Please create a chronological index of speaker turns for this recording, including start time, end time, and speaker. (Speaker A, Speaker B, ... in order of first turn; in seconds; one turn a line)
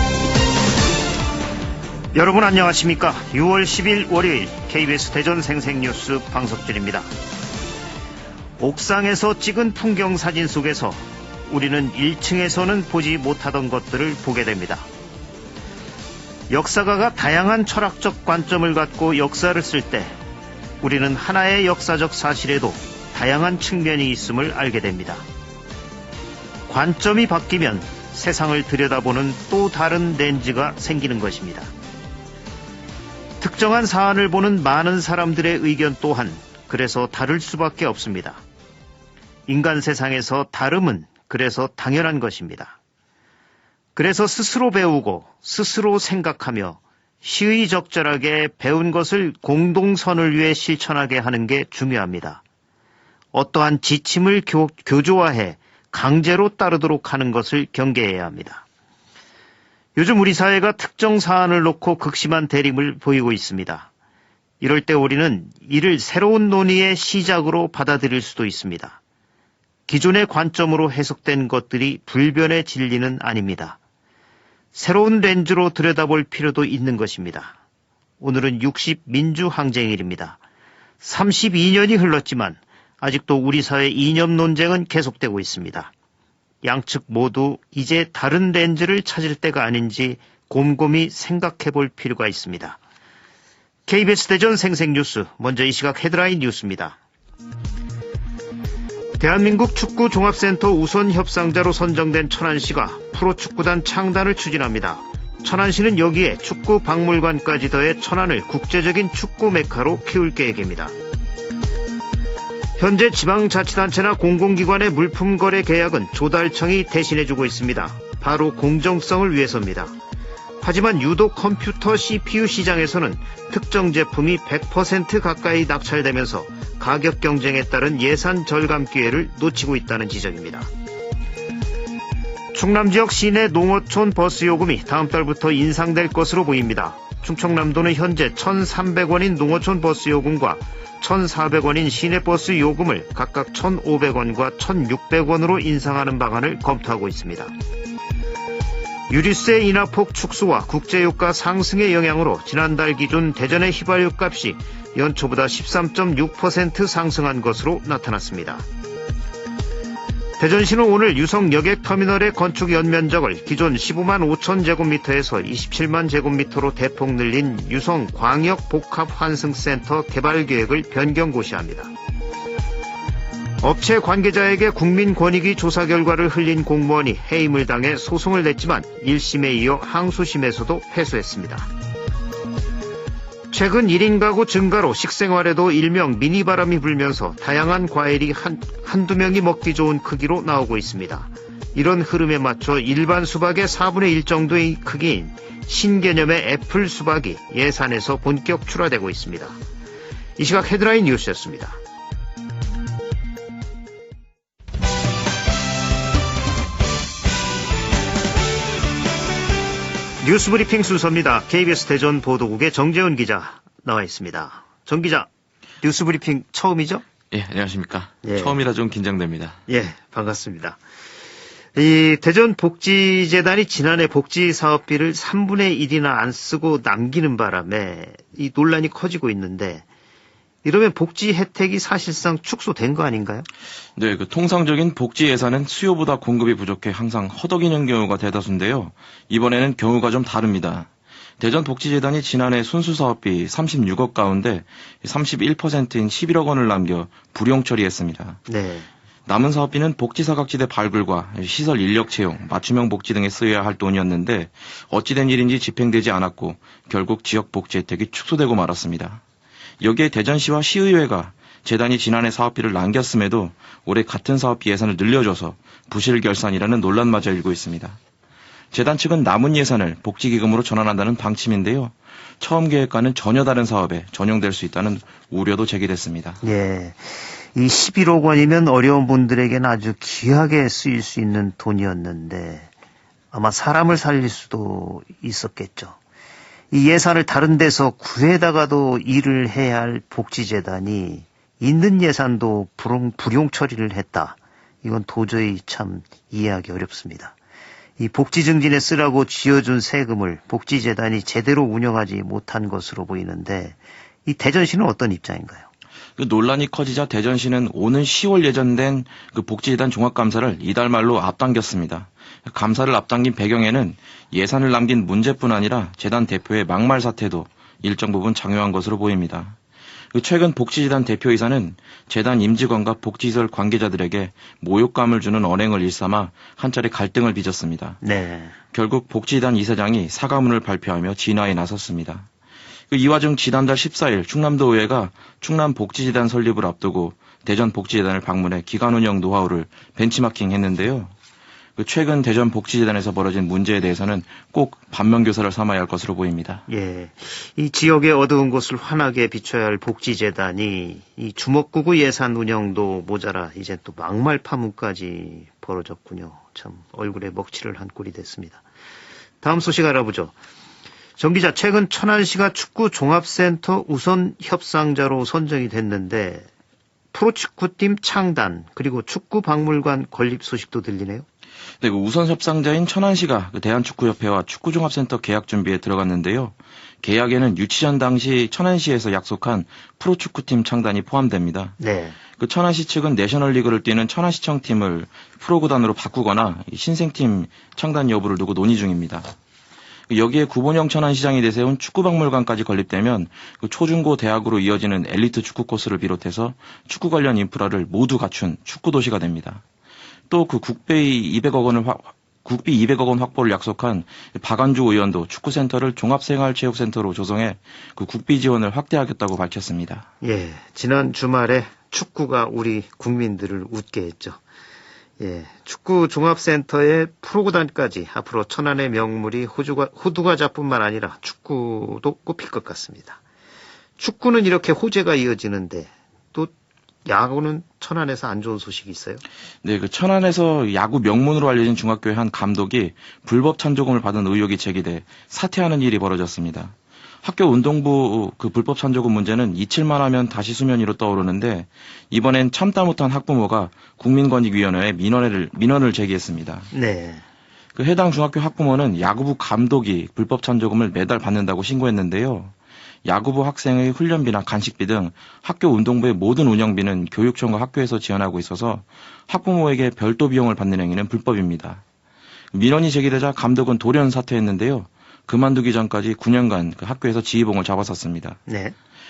Speaker A: 2.1-7.1
Speaker A: 8.6-14.9
Speaker A: 16.5-20.2
Speaker A: 20.8-25.2
Speaker A: 26.7-31.7
Speaker A: 33.4-38.4
Speaker A: 39.5-42.8
Speaker A: 44.0-52.4
Speaker A: 53.3-58.6
Speaker A: 60.0-63.9
Speaker A: 64.6-69.0
Speaker A: 69.9-73.8
Speaker A: 74.7-77.5
Speaker A: 78.2-80.4
Speaker A: 81.0-85.9
Speaker A: 86.6-92.8
Speaker A: 93.9-97.0
Speaker A: 99.2-110.9
Speaker A: 112.8-120.0
Speaker A: 120.6-130.7
Speaker A: 132.5-147.5
Speaker A: 149.1-158.7
Speaker A: 160.4-171.9
Speaker A: 173.6-181.7
Speaker A: 183.5-199.6
Speaker A: 200.4-201.8
Speaker A: 210.2-215.3
Speaker A: 215.8-217.0
Speaker B: 217.3-219.6
Speaker A: 218.2-218.6
Speaker A: 219.7-220.8
Speaker A: 221.7-229.8
Speaker A: 230.6-233.4
Speaker B: 233.9-240.9
Speaker B: 241.4-248.4
Speaker A: 248.5-248.9
Speaker B: 249.2-259.2
Speaker B: 259.8-268.0
Speaker B: 268.7-276.4
Speaker A: 276.4-282.7
Speaker A: 283.3-286.0
Speaker A: 286.7-297.3
Speaker A: 298.0-305.7
Speaker B: 306.2-319.6
Speaker B: 320.1-328.0
Speaker A: 328.0-328.6
Speaker B: 328.7-332.3
Speaker B: 332.9-341.1
Speaker B: 341.8-346.6
Speaker A: 346.7-358.6
Speaker A: 359.4-360.3
Speaker A: 361.2-366.5
Speaker A: 367.1-371.2
Speaker B: 371.8-381.8
Speaker A: 381.8-382.2
Speaker B: 382.4-389.3
Speaker B: 390.1-399.6
Speaker B: 400.3-410.1
Speaker A: 410.2-414.4
Speaker A: 415.2-423.2
Speaker A: 424.0-426.5
Speaker A: 427.0-429.2
Speaker B: 429.6-446.7
Speaker A: 446.7-447.2
Speaker B: 447.7-452.5
Speaker B: 453.0-461.8
Speaker B: 462.5-468.4
Speaker A: 468.5-468.8